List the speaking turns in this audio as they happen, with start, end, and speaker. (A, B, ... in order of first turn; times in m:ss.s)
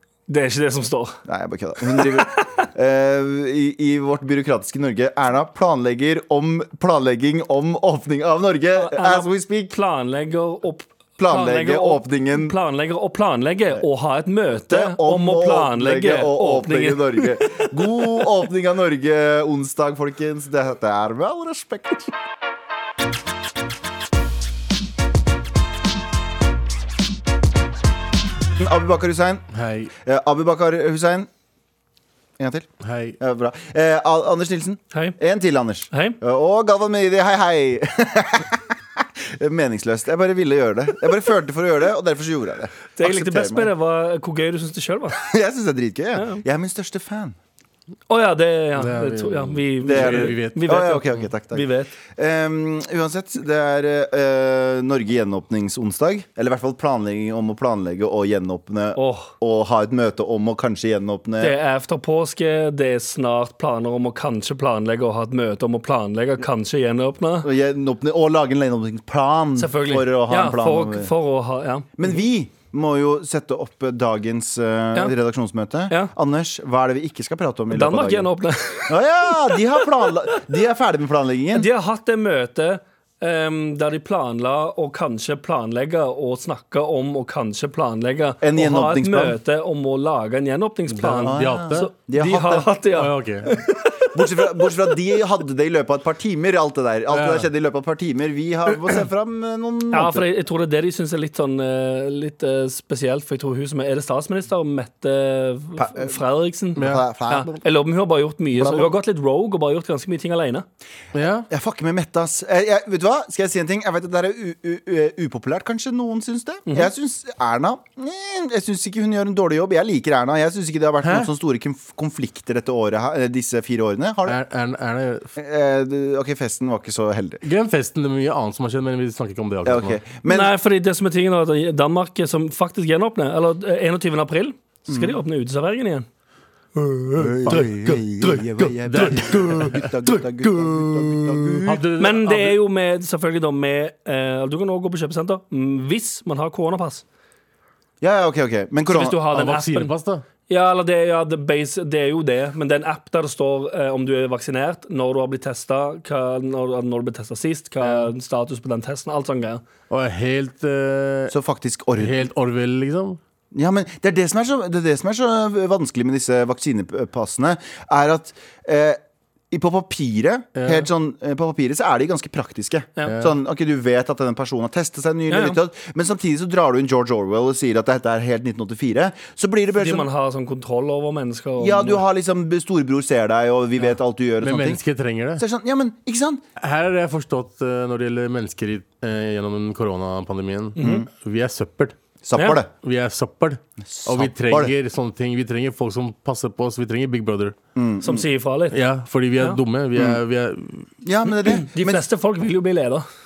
0:00.3-0:01.2 A
0:01.2-0:09.7 B
0:01.9-0:02.7 A
0:08.8-0:18.3 A
0:11.2-0:12.5 B
0:14.7-0:22.1 B
0:28.6-0:29.4 B
0:29.5-0:29.9 C
0:30.0-0:31.3 B
0:32.4-0:43.7 B
0:32.8-0:33.2 C
0:34.9-0:35.2 A
0:35.9-0:36.2 A
0:43.0-0:45.2 A
0:45.2-0:47.4 B
0:46.1-0:46.4 A
0:48.1-0:51.9 A
0:48.8-0:50.6 C
0:49.8-1:01.6 B
0:59.0-0:59.3 A
1:01.4-1:07.5 A
1:07.4-1:11.1 B
1:09.6-1:11.9 A
1:12.0-1:18.3 B
1:17.7-1:19.6 A
1:18.9-1:21.7 B
1:21.5-1:34.6 A
1:28.4-1:29.4 B
1:30.9-1:31.9 C
1:31.2-1:32.7 B
1:33.0-1:33.5 C
1:34.0-1:40.3 B
1:37.1-1:37.5 C
1:39.9-1:50.6 A
1:45.8-1:46.2 B
1:46.8-1:47.6 B
1:46.8-1:47.0 C
1:48.6-1:48.9 B
1:51.1-1:51.5 C
1:51.5-2:04.4 B
2:01.0-2:01.3 C
2:04.2-2:05.3 C
2:05.4-2:07.4 B
2:07.4-2:10.0 C
2:09.6-2:10.5 B
2:10.3-2:16.1 A
2:14.9-2:15.2 B
2:16.7-2:19.7 A
2:17.2-2:21.8 B
2:18.9-2:20.2 C
2:21.6-2:22.6 C
2:22.0-2:27.0 A
2:28.0-2:29.2 B
2:28.9-2:29.9 A
2:29.3-2:30.2 C
2:30.5-2:39.6 A
2:37.8-2:38.1 C
2:39.9-2:41.3 C
2:41.3-2:42.3 B
2:42.0-2:43.2 C
2:43.5-2:49.0 B
2:49.5-3:00.1 B
2:50.6-2:50.9 C
2:53.1-2:53.3 C
2:55.3-2:55.6 A
2:59.7-3:02.0 A
3:01.6-3:04.8 B
3:04.4-3:05.4 C
3:05.4-3:06.4 B
3:06.6-3:11.9 C
3:10.8-3:11.0 A
3:10.8-3:11.1 B
3:12.2-3:12.7 B
3:12.7-3:17.6 C
3:13.8-3:14.7 B
3:17.7-3:18.2 B
3:18.0-3:18.8 A
3:18.7-3:20.8 C
3:20.0-3:20.2 B
3:21.0-3:22.0 B
3:21.4-3:23.0 A